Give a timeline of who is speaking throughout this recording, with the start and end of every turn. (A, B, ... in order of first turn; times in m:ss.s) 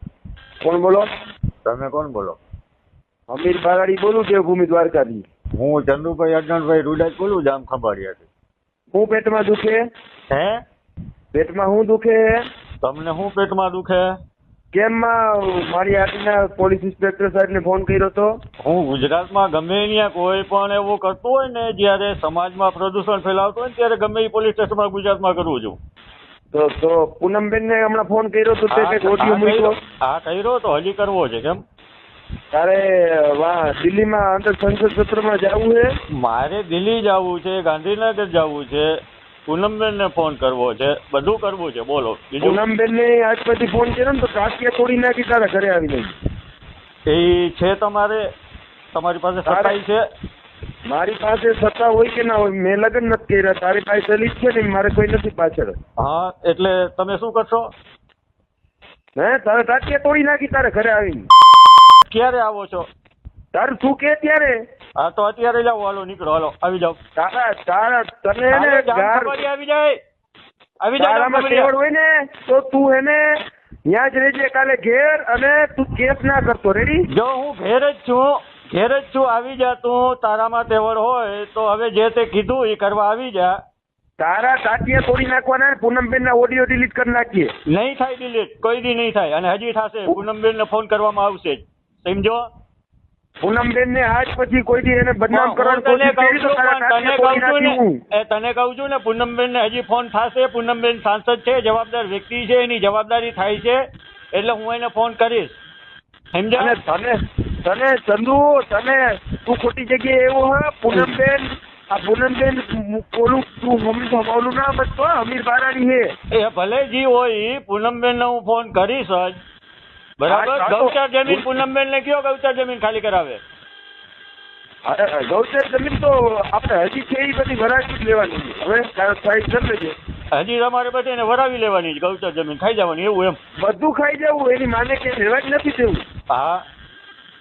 0:00.6-0:01.1 A
0:01.6-0:02.4 B
0:03.3-0:05.2 A
0:05.6-0:08.3 B
0:08.9-0:09.8 A
0:10.3-0:10.6 B
0:11.3-0:12.4 A
0:12.8-0:14.2 B
0:14.7-0:18.3 A
0:18.6-0:25.8 B
0:26.5-0:29.8 A
0:28.7-0:31.6 B
0:32.5-0:35.9 A
0:36.1-0:38.9 B
0:39.5-0:42.6 B
0:42.4-0:46.1 A
0:47.1-0:48.3 B
0:48.9-0:50.0 B
0:49.5-0:49.8 A
0:50.9-0:55.8 A
0:56.0-0:57.7 B
0:59.2-1:01.2 A
1:02.1-1:02.9 B
1:03.5-1:04.6 A
1:05.0-1:07.0 B
1:07.2-1:09.4 A
1:08.5-1:10.0 B
1:10.8-1:11.7 B
1:11.0-1:17.1 A
1:17.1-1:23.6 B
1:24.2-1:27.5 A
1:27.7-1:32.4 B
1:33.4-1:38.0 A
1:35.3-1:43.8 B
1:44.3-1:45.6 B
1:46.3-1:46.8 B
1:46.6-1:56.1 A
1:56.3-1:59.4 B
2:00.2-2:03.4 B
2:00.3-2:01.5 A
2:04.8-2:10.0 A
2:10.3-2:13.4 B
2:13.6-2:16.0 A
2:16.3-2:16.6 B